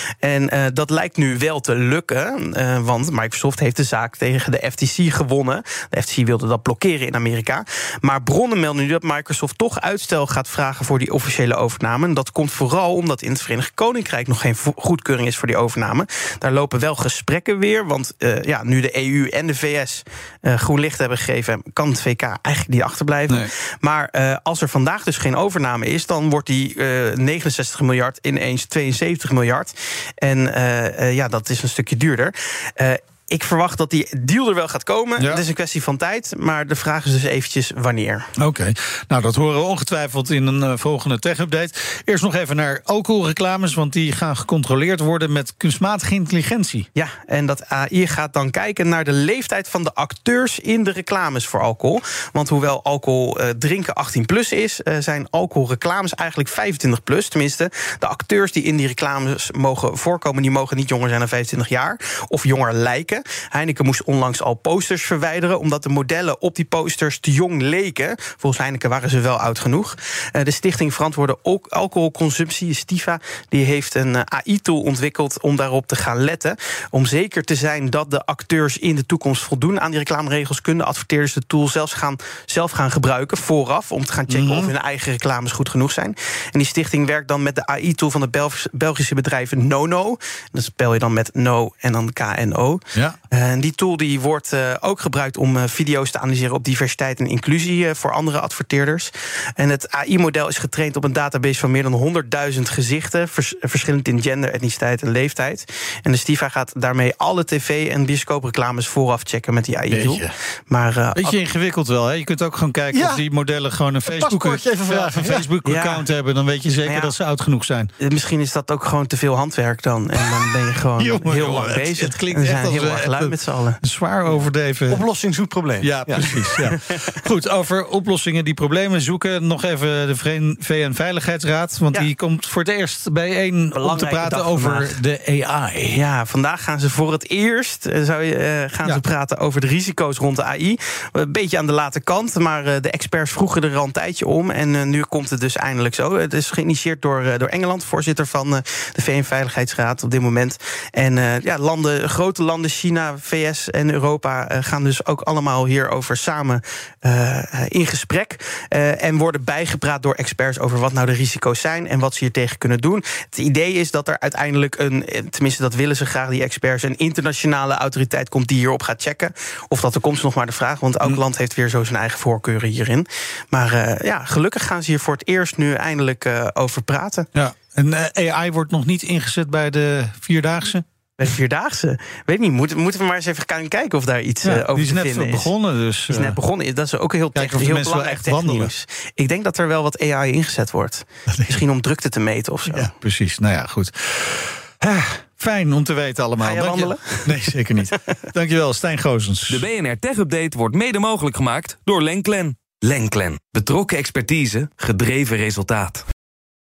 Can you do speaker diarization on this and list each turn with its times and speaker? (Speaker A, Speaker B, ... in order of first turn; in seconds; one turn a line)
Speaker A: 0.2-38.3
Speaker B: 35.2-35.4
Speaker B: 38.4-46.9
Speaker A: 46.9-111.4
Speaker B: 84.3-84.7
Speaker B: 109.9-110.3
Speaker B: 111.1-117.9
Speaker C: 112.9-113.2
Speaker C: 114.0-115.5
Speaker A: 115.6-116.0
Speaker A: 116.8-117.1
Speaker A: 118.0-123.8
Speaker B: 121.0-125.0
Speaker C: 124.3-126.6
Speaker B: 125.8-136.0
Speaker A: 133.7-134.9
Speaker A: 135.9-177.3
Speaker B: 177.3-180.8
Speaker A: 181.2-185.5
Speaker B: 184.4-186.4
Speaker A: 186.1-192.9
Speaker B: 187.3-188.7
Speaker B: 191.3-191.6
Speaker B: 192.7-199.7
Speaker A: 196.4-197.3
Speaker D: 199.5-206.0